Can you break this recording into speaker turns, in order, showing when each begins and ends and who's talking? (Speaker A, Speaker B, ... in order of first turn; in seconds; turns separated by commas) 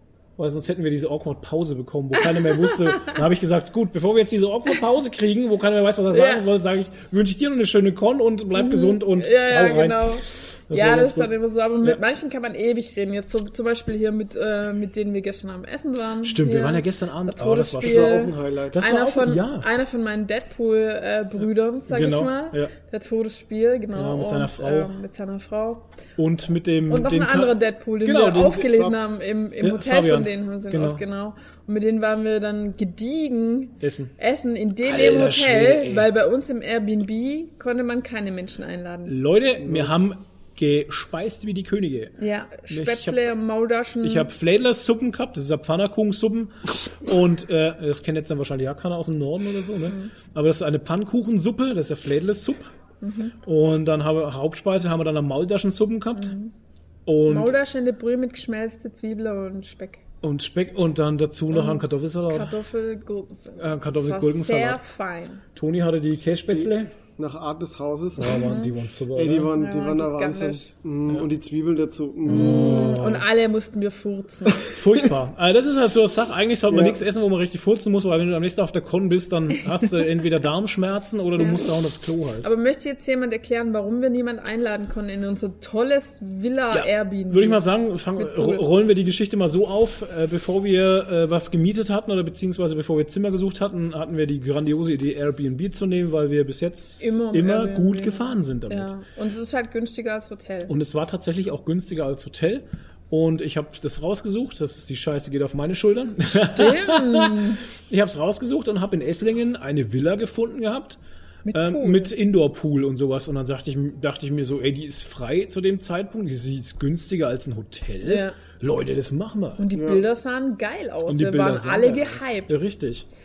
Speaker A: 0.4-12.0, Speaker B: 2.2-3.2, Speaker B: 6.1-6.5, Speaker B: 8.5-25.9, Speaker A: 16.2-19.7, Speaker C: 17.8-18.8, Speaker A: 21.9-22.7, Speaker A: 23.9-24.9, Speaker A: 26.2-29.0, Speaker B: 26.9-39.2, Speaker A: 29.6-31.0, Speaker A: 33.8-34.1, Speaker A: 34.8-36.1, Speaker A: 39.1-42.1, Speaker C: 39.6-39.9, Speaker B: 42.2-44.3, Speaker A: 42.7-43.3, Speaker A: 44.0-52.7, Speaker B: 53.0-53.4, Speaker A: 53.4-56.4, Speaker B: 56.1-56.5, Speaker A: 57.1-57.5, Speaker B: 57.3-60.0, Speaker A: 60.2-62.6, Speaker B: 61.5-65.4, Speaker A: 63.6-64.8, Speaker A: 65.5-66.9, Speaker C: 66.5-68.5, Speaker A: 68.2-69.5, Speaker B: 68.3-68.7, Speaker C: 69.2-72.9, Speaker B: 69.5-70.7, Speaker A: 72.3-73.3, Speaker B: 72.3-74.8, Speaker A: 74.6-82.5, Speaker C: 76.7-77.0, Speaker B: 81.4-81.7, Speaker B: 82.4-87.6, Speaker A: 86.7-98.9, Speaker B: 88.2-88.6, Speaker B: 97.0-100.7, Speaker A: 100.7-111.0, Speaker B: 106.5-107.6, Speaker B: 111.5-112.1, Speaker A: 111.5-119.6, Speaker B: 118.0-118.4, Speaker B: 119.6-122.6, Speaker C: 119.7-120.0, Speaker A: 121.1-123.1